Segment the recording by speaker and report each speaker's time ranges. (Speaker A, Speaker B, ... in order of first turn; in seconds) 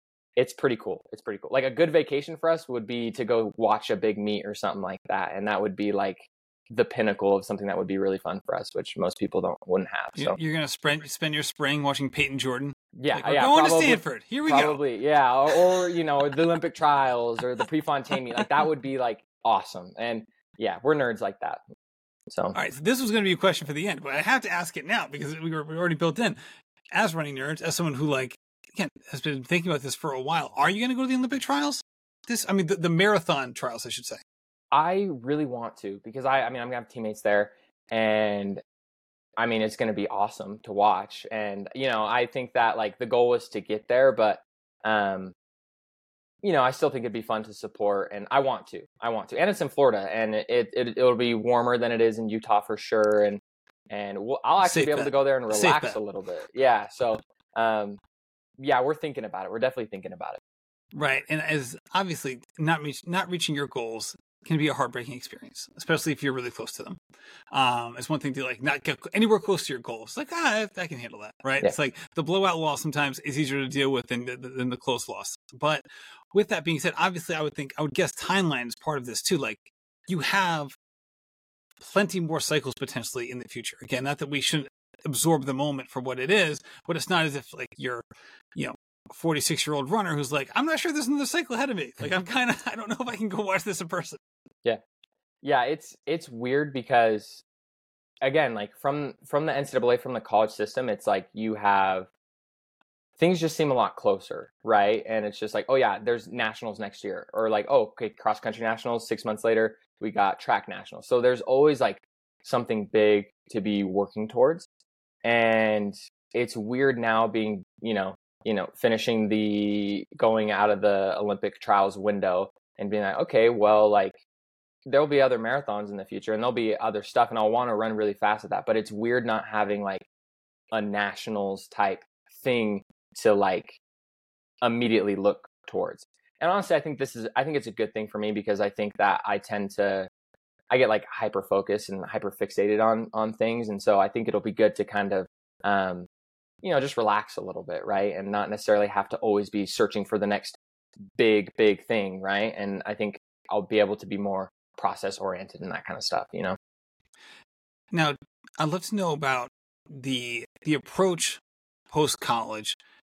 Speaker A: 0.4-10.4, 12.9-21.6, 22.3-22.6, 34.7-38.6, 39.4-45.3, 46.4-58.0, 58.6-60.4, 95.4-97.4, 98.2-102.1, 103.2-114.7, 115.2-124.2, 124.9-130.1, 130.7-133.8, 134.6-140.1, 140.7-146.1, 146.6-150.6, 151.2-156.6
Speaker B: 10.2-14.8, 22.5-26.4, 26.9-34.2, 54.6-56.0, 60.9-67.0, 67.5-80.7, 81.8-94.2, 157.9-162.8